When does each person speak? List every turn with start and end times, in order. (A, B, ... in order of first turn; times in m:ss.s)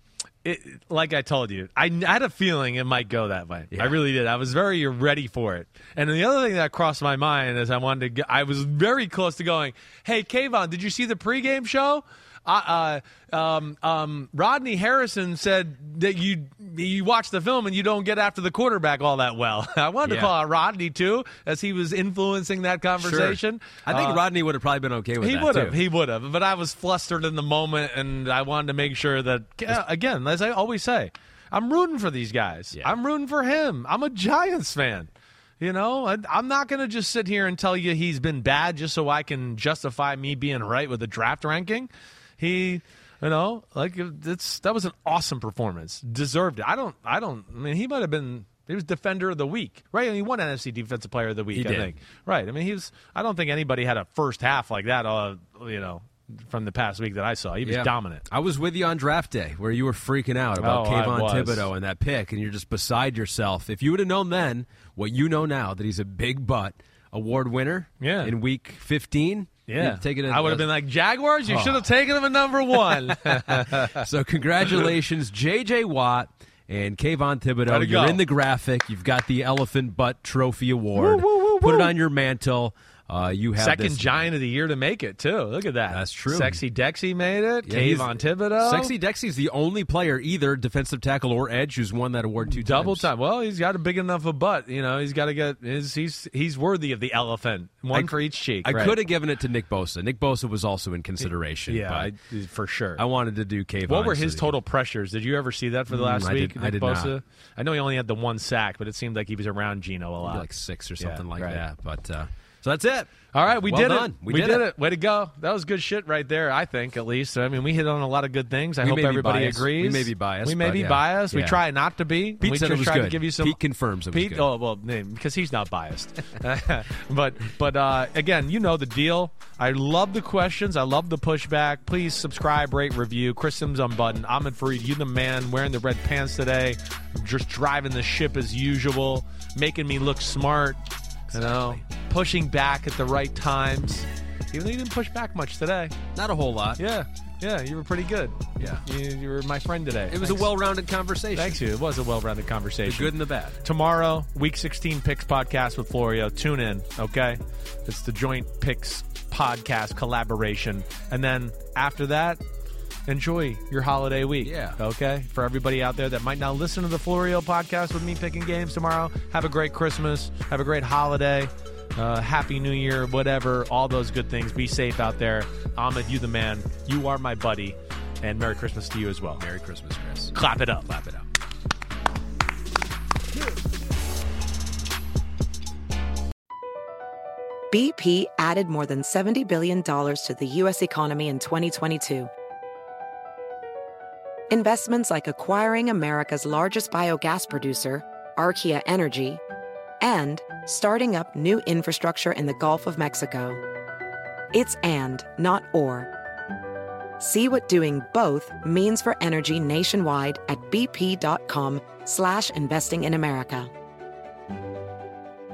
0:00.4-0:24.2 A
0:03.7-0:04.0 B
0:20.0-0:20.3 B
0:23.0-0:25.8 B
0:25.2-0:58.2 A
0:51.5-0:52.0 B
0:57.6-1:10.7 B
1:00.6-1:01.7 A
1:08.0-1:08.3 A
1:09.7-1:14.1 A
1:11.5-1:11.9 B
1:13.0-1:24.1 B
1:17.7-1:18.2 A
1:21.0-1:22.0 A
1:23.6-1:28.9 A
1:25.9-1:26.6 B
1:27.7-1:33.1 B
1:32.5-1:39.0 A
1:37.9-1:42.1 B
1:41.7-1:43.0 A
1:43.0-1:44.6 B
1:43.9-1:50.5 A
1:45.9-1:47.1 B
1:50.2-1:54.7 B
1:51.0-1:51.6 A
1:53.3-2:03.6 A
1:58.8-2:01.6 B
2:02.4-2:04.5 B
2:04.1-2:20.8 A
2:21.3-2:21.8 B
2:21.3-2:26.0 A
2:26.2-2:26.8 B
2:26.8-2:30.5 A
2:28.6-2:28.9 B
2:30.1-2:31.6 B
2:31.4-2:42.4 A
2:32.8-2:33.6 B
2:43.1-2:59.4 A
2:44.4-2:44.8 B
2:59.3-3:00.4 B
3:00.3-3:01.2 A
3:07.7-3:12.3 C
3:14.5-3:19.4 C
3:20.0-3:23.6 C
3:24.5-3:26.1 C
3:27.2-3:33.7 C